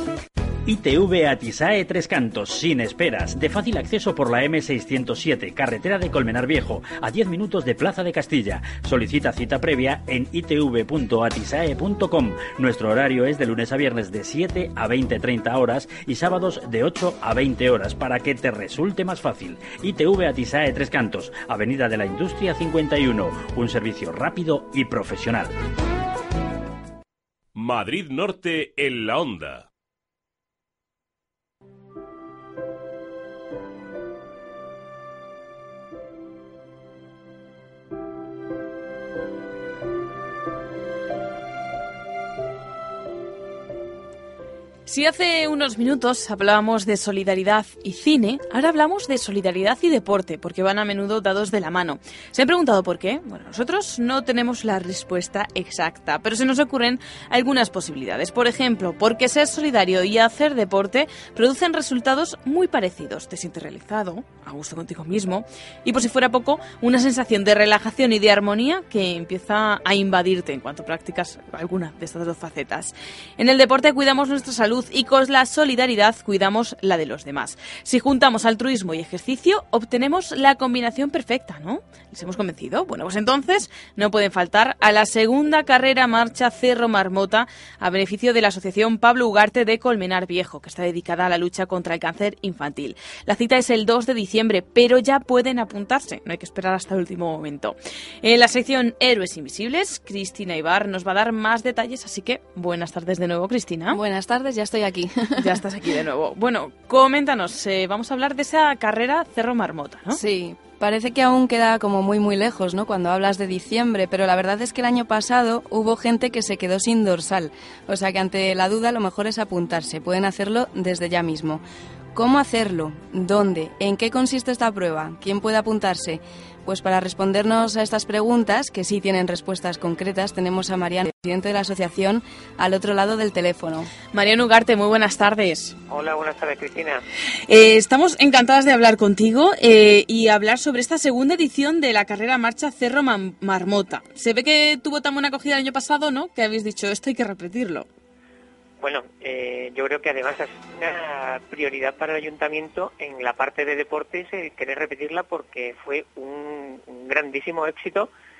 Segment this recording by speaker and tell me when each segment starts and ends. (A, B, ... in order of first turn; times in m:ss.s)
0:00.7-0:25.5 A
0:27.6-0:29.7 B
0:44.9-1:44.0 C
1:43.9-1:45.5 D
1:45.4-1:50.2 C
1:50.1-2:01.6 D
2:02.1-2:13.9 D
2:14.1-2:15.8 C
2:15.9-2:17.0 E
2:17.5-2:27.9 C
2:28.8-2:38.1 E